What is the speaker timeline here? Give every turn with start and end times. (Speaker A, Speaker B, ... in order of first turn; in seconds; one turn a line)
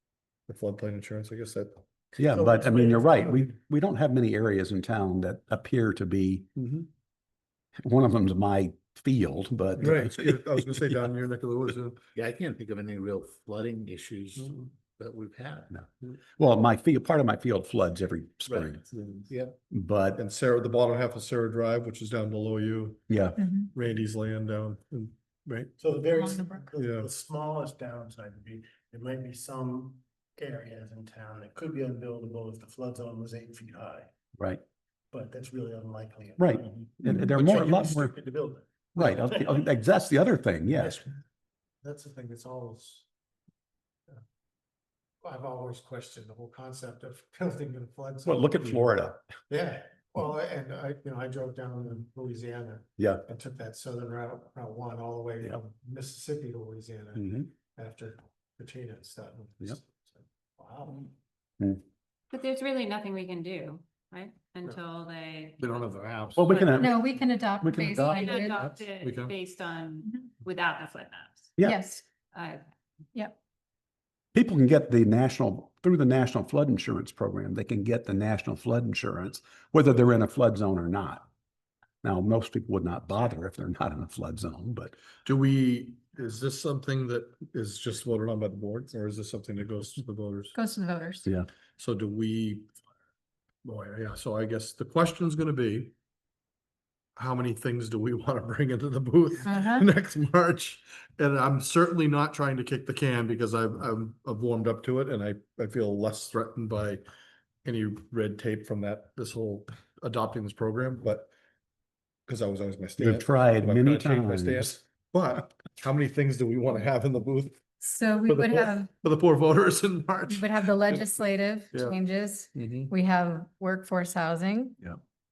Speaker A: 0.5-1.8
Speaker B: 2.1-3.5
Speaker C: 2.2-6.5
Speaker A: 6.6-6.9
Speaker C: 7.8-10.8
Speaker A: 9.8-12.0
Speaker D: 12.2-15.8
Speaker A: 14.4-14.7
Speaker C: 16.4-18.8
Speaker A: 18.5-19.3
Speaker D: 19.3-19.6
Speaker C: 19.7-20.2
Speaker A: 20.1-23.0
Speaker C: 23.1-23.4
Speaker E: 23.4-23.7
Speaker A: 23.7-25.8
Speaker B: 25.8-34.1
Speaker E: 26.1-26.7
Speaker A: 26.8-27.1
Speaker B: 35.1-39.7
Speaker C: 36.4-38.1
Speaker C: 39.0-41.0
Speaker B: 40.8-41.1
Speaker B: 41.8-43.1
Speaker B: 45.2-48.9
Speaker C: 48.2-49.2
Speaker B: 49.5-61.1
Speaker C: 53.0-53.2
Speaker C: 57.2-57.5
Speaker F: 62.3-66.0
Speaker A: 65.6-66.6
Speaker C: 66.4-67.1
Speaker F: 66.5-66.8
Speaker E: 66.8-68.7
Speaker C: 67.6-68.5
Speaker F: 68.0-71.5
Speaker A: 68.6-69.3
Speaker E: 71.6-72.0
Speaker F: 72.3-72.6
Speaker C: 74.3-81.3
Speaker C: 82.0-85.0
Speaker A: 85.2-90.5
Speaker E: 90.5-91.3
Speaker A: 91.8-92.8
Speaker A: 93.6-95.9
Speaker A: 97.2-107.0
Speaker E: 99.5-99.9
Speaker A: 107.6-111.3
Speaker A: 112.3-117.6
Speaker C: 113.0-114.7
Speaker E: 117.8-118.9
Speaker A: 118.3-121.2
Speaker E: 120.3-124.8
Speaker A: 121.7-122.0
Speaker A: 122.5-122.9